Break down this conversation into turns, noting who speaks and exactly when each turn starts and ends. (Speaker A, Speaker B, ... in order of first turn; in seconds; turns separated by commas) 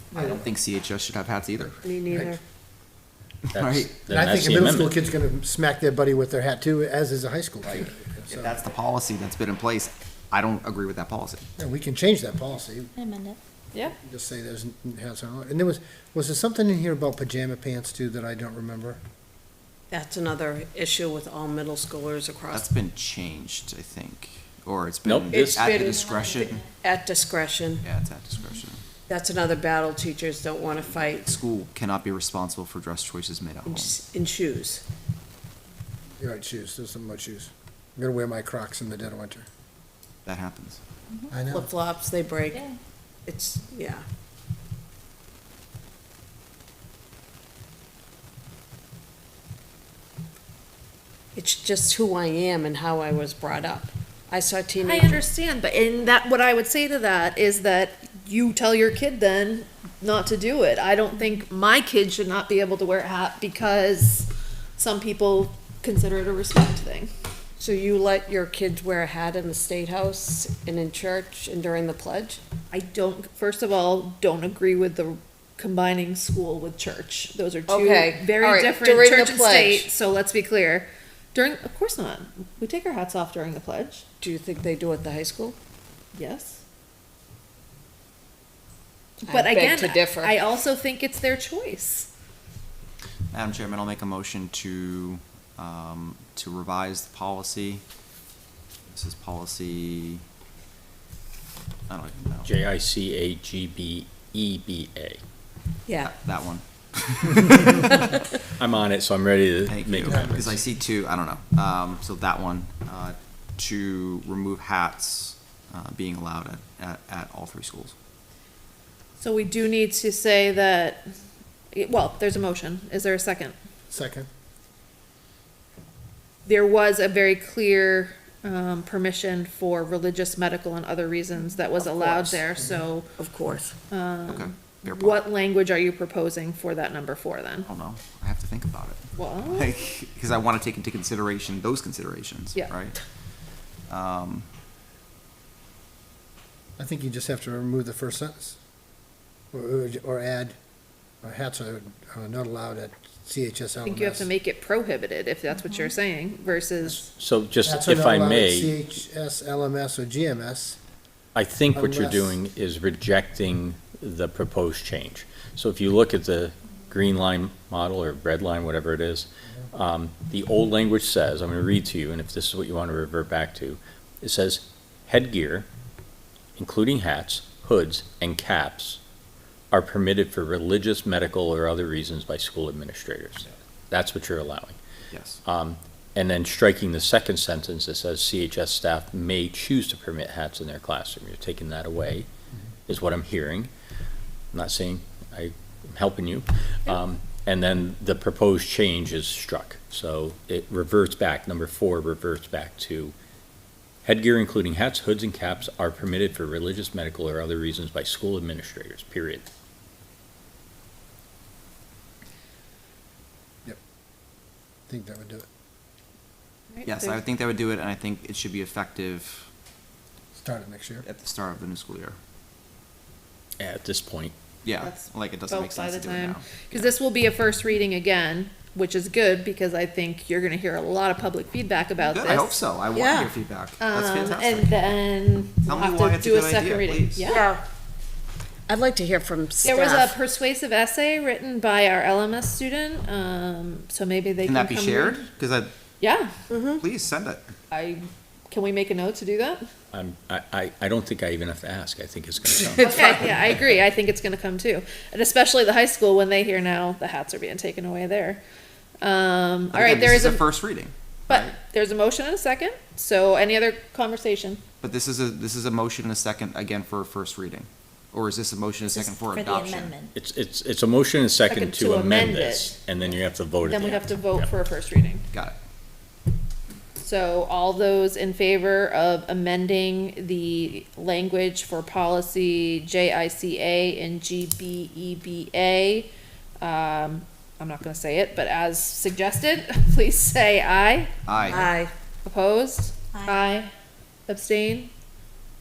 Speaker A: 0.1-1.8, Speaker B: 0.1-0.4, Speaker C: 1.8-2.4, Speaker D: 3.5-5.0, Speaker A: 3.5-3.9, Speaker B: 4.1-8.6, Speaker A: 7.7-11.5, Speaker B: 11.6-12.9, Speaker E: 13.0-13.4, Speaker B: 14.0-19.0, Speaker C: 19.9-22.7, Speaker A: 22.5-26.7, Speaker D: 25.0-25.7, Speaker C: 25.3-27.9, Speaker A: 27.8-28.8, Speaker C: 29.1-31.4, Speaker A: 30.9-34.0, Speaker C: 33.7-34.8, Speaker B: 36.2-39.5, Speaker A: 40.2-40.8, Speaker B: 41.3-41.7, Speaker C: 41.5-42.7, Speaker C: 43.3-44.0, Speaker C: 51.4-55.2, Speaker F: 54.8-67.1, Speaker C: 67.6-72.4, Speaker F: 72.7-84.0, Speaker C: 77.7-79.9, Speaker C: 84.2-85.6, Speaker F: 86.2-86.6, Speaker F: 89.2-92.1, Speaker C: 89.3-90.3, Speaker A: 93.3-97.8, Speaker A: 98.9-100.2, Speaker A: 101.9-102.5, Speaker D: 102.5-105.2, Speaker C: 105.9-106.1, Speaker A: 106.0-108.2, Speaker D: 108.6-110.6, Speaker A: 109.7-117.9, Speaker F: 119.2-121.0, Speaker F: 121.7-123.5, Speaker B: 123.9-124.3, Speaker F: 126.5-133.1, Speaker C: 131.8-132.4, Speaker C: 133.2-133.8, Speaker F: 133.9-137.7, Speaker A: 134.3-135.2, Speaker A: 137.7-143.0, Speaker F: 139.2-139.7, Speaker A: 143.9-144.5, Speaker B: 146.8-148.6, Speaker B: 149.5-150.5, Speaker B: 151.2-154.3, Speaker F: 153.8-157.1, Speaker E: 155.6-155.9, Speaker D: 157.1-158.8, Speaker B: 157.6-160.8, Speaker D: 161.3-175.7, Speaker B: 161.7-162.4, Speaker D: 176.6-179.0, Speaker D: 179.7-184.8, Speaker A: 185.1-185.4, Speaker D: 185.5-192.3, Speaker D: 192.9-193.7, Speaker D: 194.5-203.1, Speaker D: 204.1-209.5, Speaker B: 214.9-215.5, Speaker F: 216.7-217.2, Speaker A: 216.8-219.5, Speaker B: 220.4-221.1, Speaker A: 221.0-222.2, Speaker D: 223.6-224.3, Speaker A: 224.6-226.9, Speaker F: 224.8-232.6, Speaker A: 232.1-234.8, Speaker C: 232.9-233.3, Speaker F: 233.8-237.4, Speaker A: 235.7-237.4, Speaker C: 237.2-237.6, Speaker C: 238.7-240.2, Speaker F: 239.6-245.3, Speaker A: 244.4-245.7, Speaker F: 246.0-246.4, Speaker C: 246.5-246.8, Speaker A: 246.8-247.5, Speaker F: 247.7-249.6, Speaker D: 249.9-252.9, Speaker F: 252.8-258.4, Speaker C: 252.8-253.1, Speaker F: 259.0-260.5, Speaker A: 259.7-261.6, Speaker F: 261.3-264.6, Speaker A: 264.8-270.0, Speaker E: 268.9-270.1, Speaker D: 270.1-274.5, Speaker F: 271.5-272.7, Speaker F: 273.6-275.3, Speaker A: 275.3-275.6, Speaker F: 277.0-291.1, Speaker A: 291.3-291.7, Speaker C: 291.5-291.9, Speaker F: 292.2-293.7, Speaker F: 294.3-294.9